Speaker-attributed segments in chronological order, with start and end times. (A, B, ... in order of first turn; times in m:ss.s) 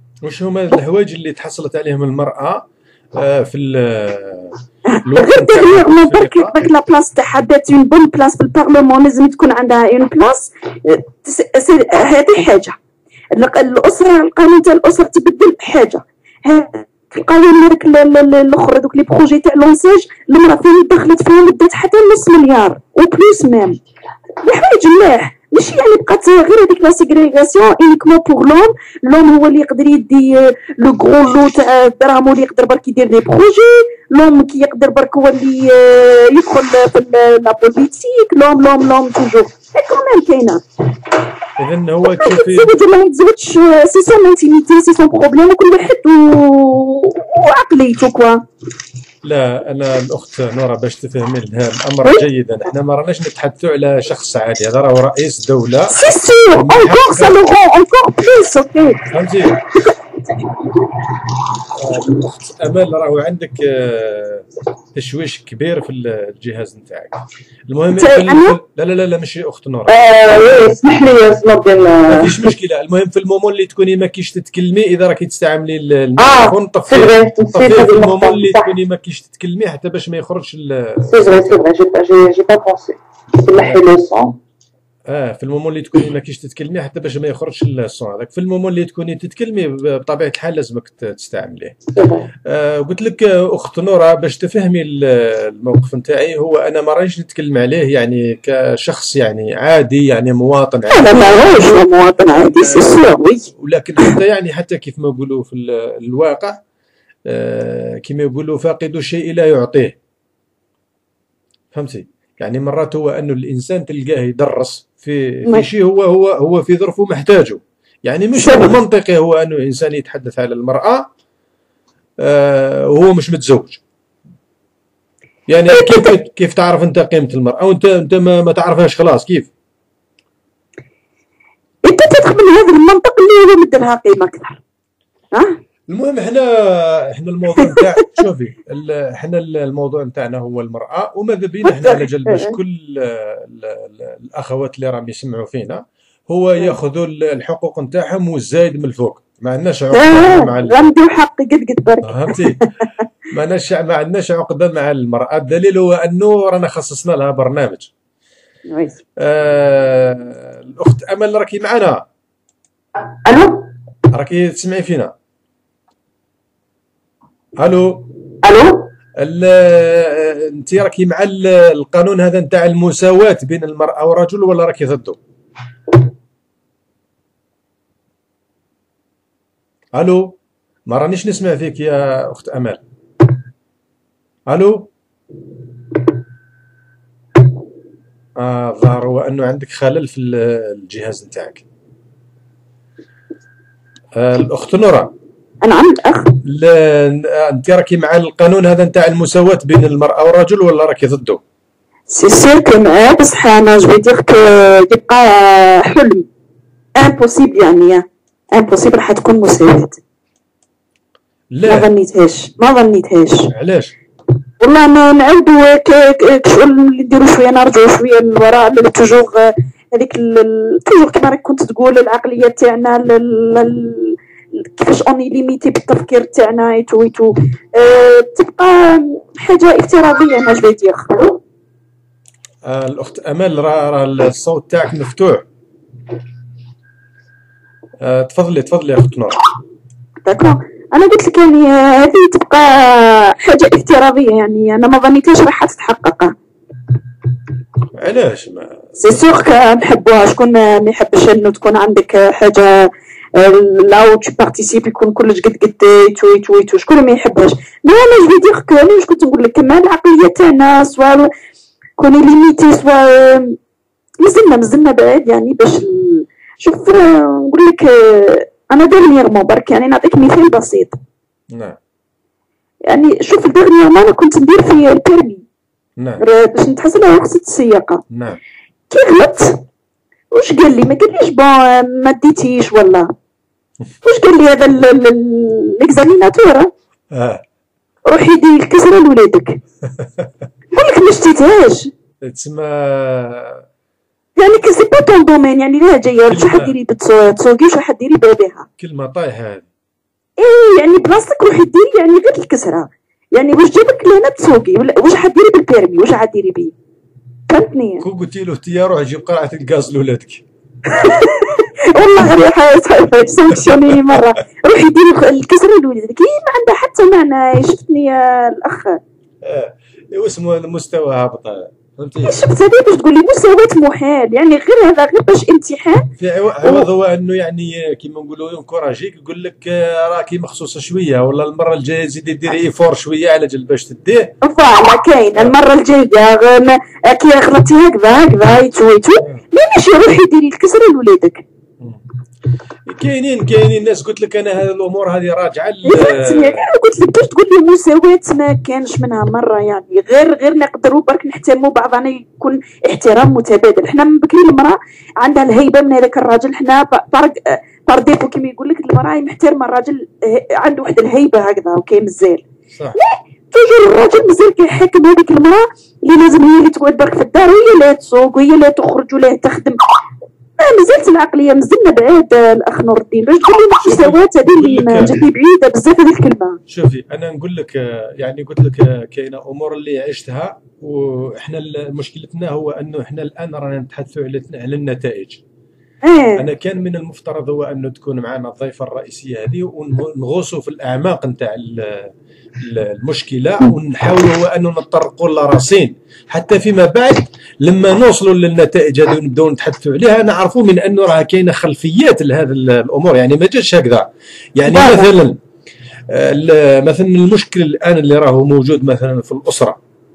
0:00.2-0:06.7 A
0:04.9-0:12.8 B
0:13.4-0:23.8 B
0:24.4-0:40.6 B
0:41.6-0:42.8 A
0:42.0-0:48.4 B
0:49.2-0:56.0 A
0:55.9-0:59.1 B
0:56.5-0:57.5 A
0:59.1-0:59.6 A
1:01.8-1:10.0 A
1:08.0-1:08.6 B
1:09.9-1:12.5 C
1:12.1-1:21.6 A
1:16.2-1:18.7 C
1:21.1-1:24.4 C
1:25.1-1:31.8 A
1:32.0-1:32.3 C
1:32.5-1:43.0 A
1:40.9-1:43.5 B
1:43.5-1:46.6 A
1:47.3-1:50.0 A
1:51.7-2:01.1 A
1:58.4-1:58.8 B
2:02.2-2:03.8 A
2:05.5-2:09.5 A
2:05.7-2:06.2 B
2:11.8-2:14.6 B
2:15.3-2:15.6 B
2:15.9-2:30.9 A
2:21.6-2:22.6 B
2:29.9-2:32.5 B
2:32.1-2:32.6 A
2:33.3-2:37.9 A
2:38.7-2:39.0 B
2:39.2-2:42.0 A
2:43.1-2:43.7 C
2:44.1-2:45.1 A
2:47.6-2:48.1 A
2:48.4-2:48.9 C
2:49.2-2:55.2 A
3:00.0-3:00.4 A
3:00.9-3:02.8 A
3:04.5-3:04.9 A
3:08.4-3:11.6 A
3:14.2-3:15.1 A
3:15.6-3:16.4 B
3:16.4-3:21.4 A
3:22.1-3:26.2 B
3:27.0-3:30.0 B
3:31.5-3:31.9 A
3:31.7-3:33.5 B
3:33.5-3:33.9 A
3:34.6-3:51.4 B
3:52.6-3:55.5 A
3:58.0-3:59.4 A
4:00.2-4:06.3 B
4:07.9-4:08.9 A
4:09.0-4:21.3 B
4:22.0-4:23.6 B
4:24.2-4:31.0 B
4:31.5-4:31.8 A
4:32.9-4:35.4 B
4:36.2-4:38.0 B
4:38.1-4:38.4 A
4:38.9-4:39.6 B
4:40.3-4:43.1 B
4:44.0-4:46.7 B
4:47.1-4:47.4 A
4:48.1-4:49.6 B
4:50.0-4:50.4 A
4:50.7-4:51.9 B
4:52.2-4:53.6 A
4:54.4-4:58.7 B
4:56.3-4:56.8 A
4:58.8-4:59.7 A
5:00.4-5:06.7 B
5:07.5-5:08.0 B
5:08.0-5:10.4 A
5:10.9-5:19.0 B
5:13.6-5:14.2 A
5:19.4-5:22.4 A
5:22.2-5:26.0 B
5:26.2-5:34.3 A
5:34.4-5:41.4 B
5:42.9-5:46.7 A
5:45.9-6:02.4 B
6:02.7-6:03.0 A
6:03.0-6:09.8 B
6:10.6-6:16.6 B
6:13.8-6:15.2 A
6:16.7-6:25.4 A
6:26.0-6:26.4 B
6:26.4-6:45.4 A
6:44.7-6:45.1 B
6:46.1-6:49.8 A